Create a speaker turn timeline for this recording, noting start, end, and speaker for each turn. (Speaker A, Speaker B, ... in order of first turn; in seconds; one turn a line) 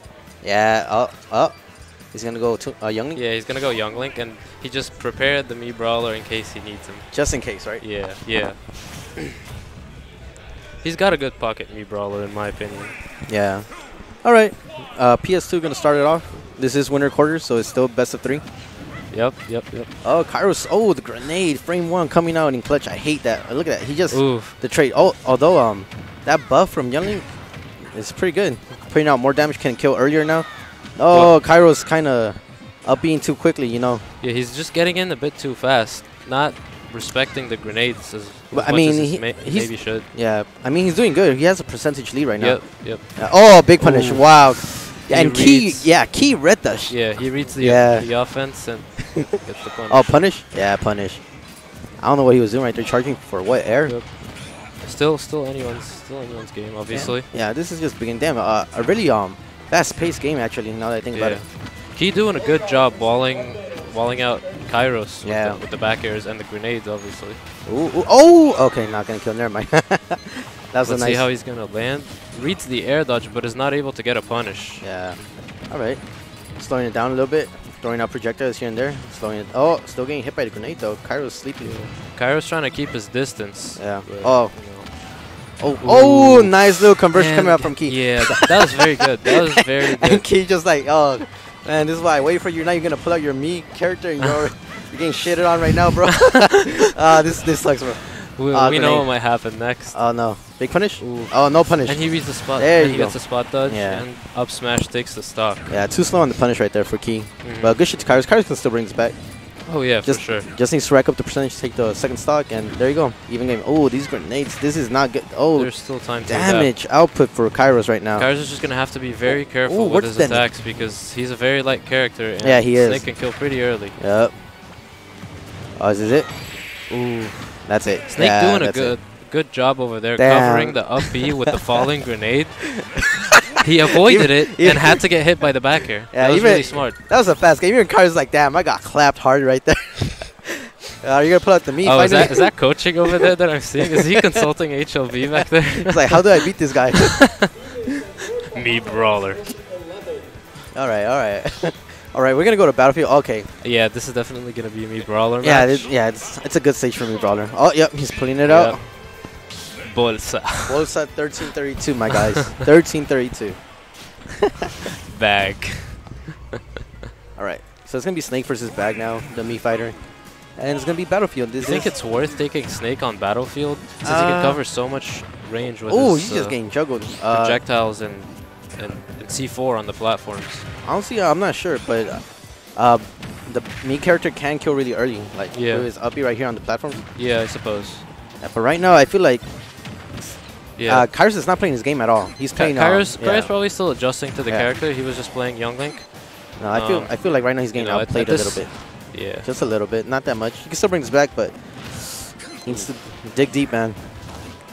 Speaker A: 0.3-3.2
Speaker B: 3.1-9.2
Speaker A: 7.1-7.8
Speaker B: 10.8-13.0
Speaker A: 13.3-18.4
Speaker B: 19.1-19.9
Speaker A: 20.0-34.1
Speaker B: 24.1-24.6
Speaker B: 31.1-31.4
Speaker B: 34.2-40.1
Speaker A: 38.5-48.5
Speaker B: 42.4-46.1
Speaker B: 46.9-50.2
Speaker A: 49.9-54.0
Speaker B: 53.8-57.3
Speaker A: 56.9-61.5
Speaker B: 61.1-67.4
Speaker A: 65.2-65.6
Speaker A: 67.7-71.3
Speaker B: 70.8-75.3
Speaker A: 74.8-81.8
Speaker B: 81.6-85.2
Speaker A: 83.8-84.9
Speaker A: 85.6-88.4
Speaker B: 85.8-90.3
Speaker A: 90.0-104.0
Speaker B: 98.2-100.3
Speaker B: 101.0-105.7
Speaker A: 105.7-109.3
Speaker B: 107.4-107.8
Speaker B: 109.6-110.5
Speaker A: 110.0-118.3
Speaker B: 115.5-116.7
Speaker B: 118.2-124.0
Speaker A: 119.3-120.5
Speaker A: 122.4-124.4
Speaker A: 125.8-126.3
Speaker B: 126.9-133.0
Speaker A: 127.6-129.0
Speaker A: 130.2-131.2
Speaker B: 133.6-137.0
Speaker A: 134.0-135.2
Speaker A: 136.1-142.6
Speaker B: 141.8-146.2
Speaker A: 145.8-147.5
Speaker B: 147.1-147.5
Speaker B: 148.5-149.5
Speaker A: 150.7-153.5
Speaker B: 153.6-155.9
Speaker A: 155.4-158.8
Speaker B: 158.4-159.0
Speaker B: 159.8-160.9
Speaker A: 160.7-163.8
Speaker B: 165.0-166.3
Speaker A: 167.3-171.9
Speaker B: 171.6-180.7
Speaker A: 174.0-174.6
Speaker A: 175.9-177.6
Speaker A: 180.8-187.1
Speaker B: 185.5-185.9
Speaker B: 187.1-188.1
Speaker A: 188.4-190.1
Speaker B: 190.8-191.1
Speaker A: 190.8-193.8
Speaker B: 192.5-199.5
Speaker A: 196.6-204.0
Speaker B: 202.7-202.9